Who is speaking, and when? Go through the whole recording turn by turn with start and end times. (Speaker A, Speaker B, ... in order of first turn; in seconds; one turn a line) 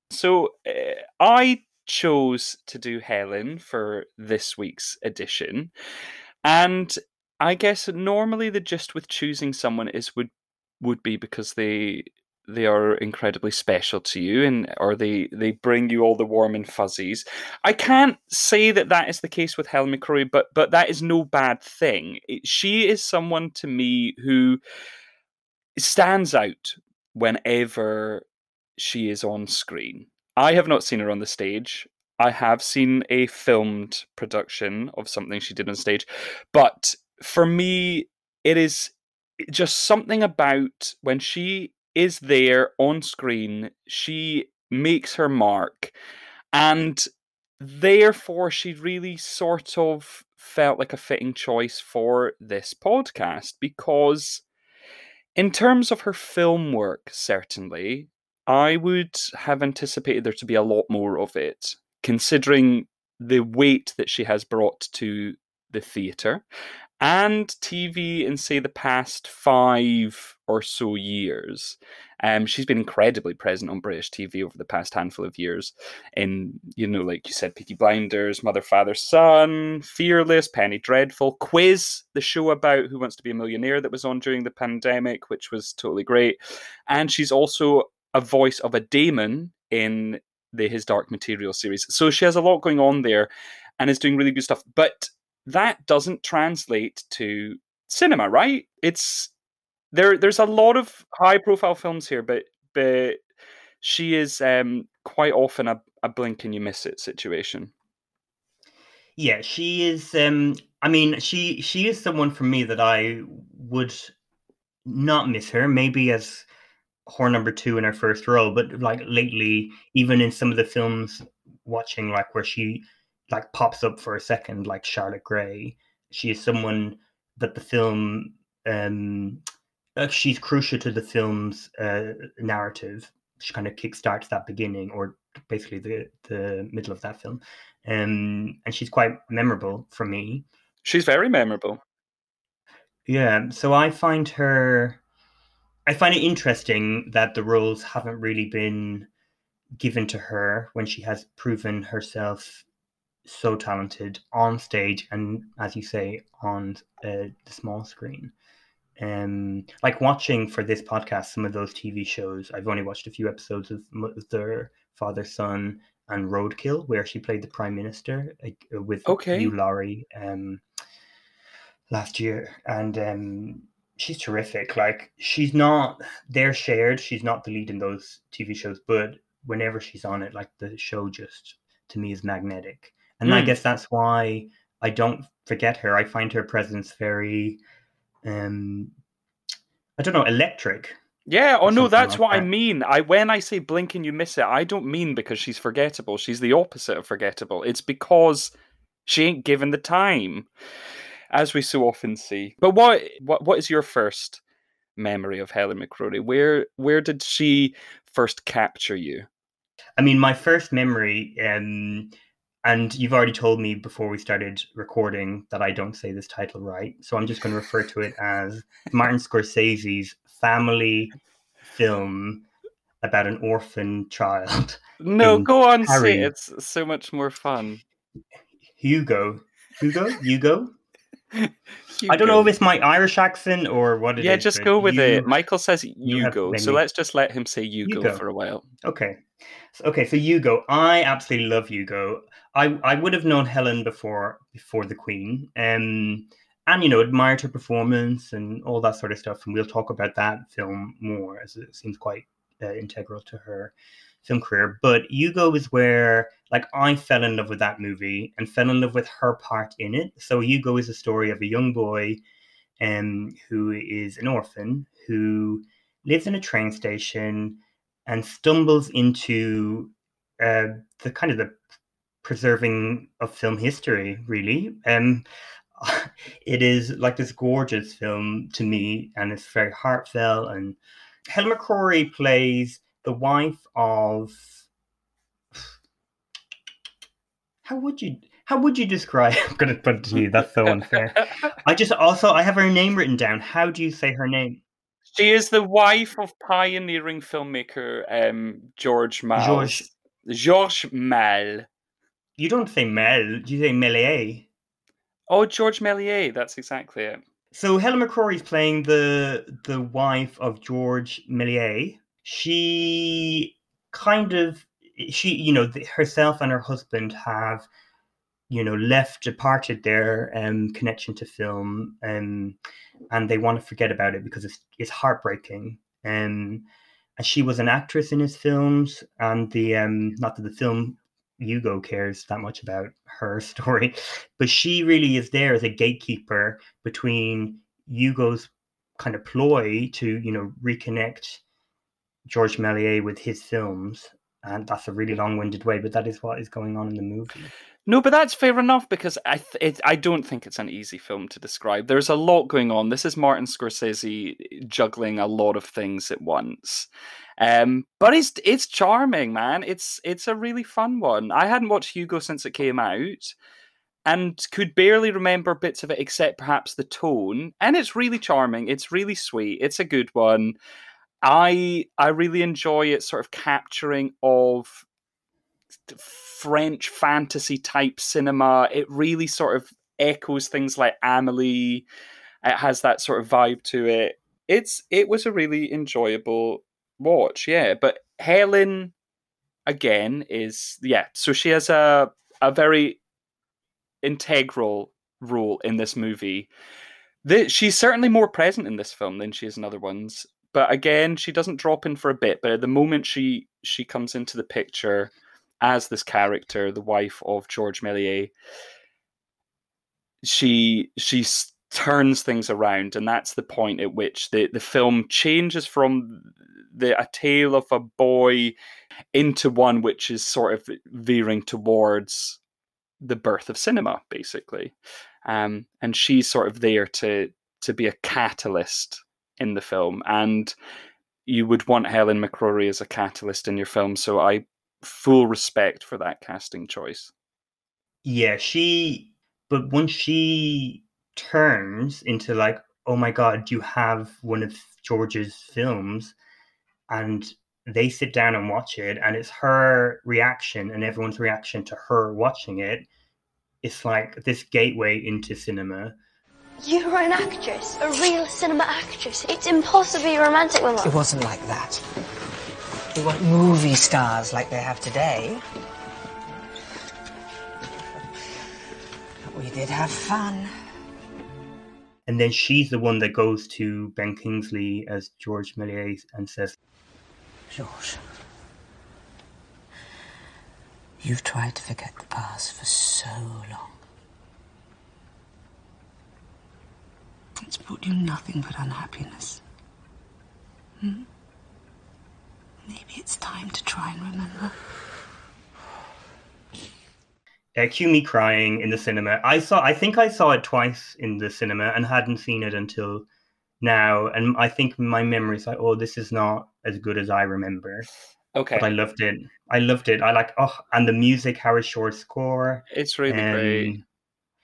Speaker A: 0.1-5.7
Speaker A: 6.5-24.6
Speaker A: 25.8-28.3
Speaker A: 28.8-46.0
Speaker A: 46.5-47.1
Speaker A: 47.6-54.4
Speaker A: 55.4-66.4
Speaker A: 67.0-99.3
Speaker A: 99.9-103.2
Speaker A: 103.8-107.7
Speaker B: 109.2-114.1
Speaker B: 114.9-116.5
Speaker B: 117.1-129.4
Speaker B: 130.0-140.5
Speaker A: 140.8-141.8
Speaker B: 143.1-145.0
Speaker B: 145.9-149.1
Speaker B: 149.8-152.7
Speaker B: 153.2-158.3
Speaker B: 159.0-170.6
Speaker A: 169.1-169.5
Speaker B: 171.9-187.6
Speaker A: 183.2-183.6
Speaker B: 188.2-188.9
Speaker B: 190.0-191.0
Speaker A: 191.3-198.5
Speaker B: 191.6-192.5
Speaker A: 199.1-200.5
Speaker A: 201.3-204.4
Speaker A: 205.0-209.3
Speaker B: 210.0-221.1
Speaker B: 221.7-222.5
Speaker B: 223.0-226.3
Speaker A: 225.0-227.8
Speaker B: 228.8-230.7
Speaker A: 231.3-232.5
Speaker B: 232.1-235.3
Speaker A: 234.2-238.7
Speaker B: 236.0-236.8
Speaker B: 237.8-238.2
Speaker B: 238.8-239.2
Speaker B: 239.7-262.2
Speaker B: 262.8-271.6
Speaker B: 272.2-275.3
Speaker B: 275.8-284.6
Speaker B: 287.6-294.6
Speaker A: 290.6-291.4
Speaker A: 295.1-301.7
Speaker B: 299.4-299.9
Speaker B: 302.4-304.5
Speaker A: 305.3-307.2
Speaker B: 307.5-317.7
Speaker B: 318.5-322.6
Speaker B: 323.1-326.6
Speaker B: 327.2-341.4
Speaker B: 342.3-347.5
Speaker A: 347.9-363.4
Speaker A: 364.1-370.6
Speaker A: 371.2-374.9
Speaker A: 375.9-381.9
Speaker A: 382.4-388.9
Speaker A: 389.7-393.0
Speaker A: 394.0-396.5
Speaker A: 397.2-408.3
Speaker A: 410.2-418.6
Speaker A: 419.1-422.4
Speaker A: 423.0-430.6
Speaker A: 431.3-437.1
Speaker B: 438.0-446.1
Speaker B: 446.9-452.9
Speaker B: 453.6-456.0
Speaker C: 456.6-461.0
Speaker D: 460.8-461.8
Speaker D: 462.9-465.4
Speaker D: 469.3-470.5
Speaker B: 472.1-476.6
Speaker D: 477.5-478.0
Speaker D: 481.0-483.7
Speaker D: 487.4-489.4
Speaker D: 490.8-491.1
Speaker D: 492.7-494.5
Speaker B: 497.6-503.1
Speaker B: 503.6-507.9
Speaker A: 508.4-508.7
Speaker B: 508.6-513.8
Speaker A: 512.7-513.8